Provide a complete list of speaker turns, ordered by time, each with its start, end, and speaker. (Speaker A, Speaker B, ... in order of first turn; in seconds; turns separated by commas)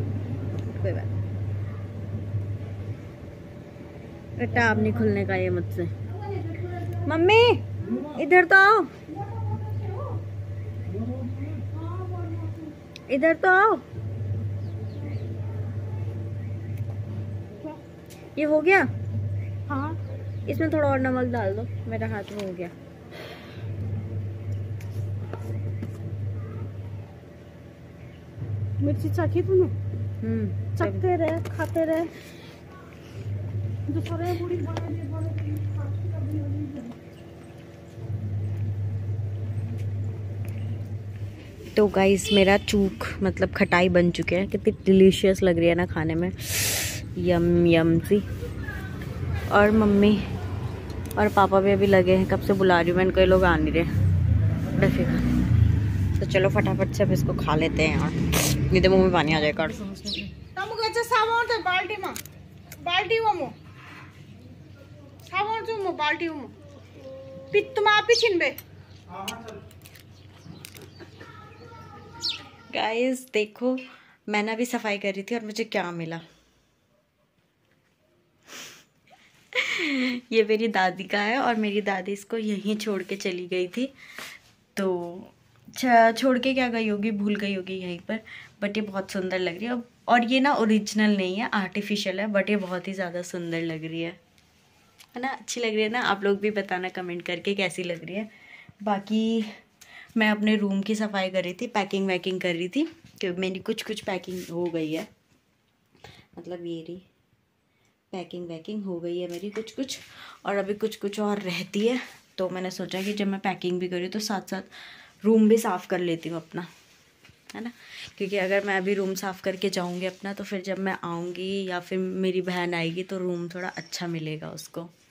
Speaker A: 0.7-1.1, Speaker A: 4.4-5.9, Speaker A: 7.0-8.9, Speaker B: 9.3-10.1, Speaker B: 11.9-12.5, Speaker A: 13.1-13.8, Speaker A: 18.4-18.9, Speaker B: 19.7-20.0, Speaker A: 20.5-22.7, Speaker B: 28.8-29.8, Speaker A: 30.2-31.1, Speaker B: 30.8-32.1, Speaker B: 33.9-37.0, Speaker A: 41.7-48.2, Speaker A: 49.5-50.2, Speaker A: 51.2-53.9, Speaker A: 54.7-55.3, Speaker A: 56.2-60.3, Speaker B: 60.6-62.2, Speaker B: 62.8-63.5, Speaker B: 65.3-66.5, Speaker B: 67.5-68.6, Speaker A: 72.7-76.2, Speaker A: 79.5-83.9, Speaker A: 84.8-94.2, Speaker A: 95.1-98.3, Speaker A: 98.8-99.5, Speaker A: 100.2-105.1, Speaker A: 106.4-107.1, Speaker A: 108.1-114.7, Speaker A: 115.2-116.7, Speaker A: 117.5-124.9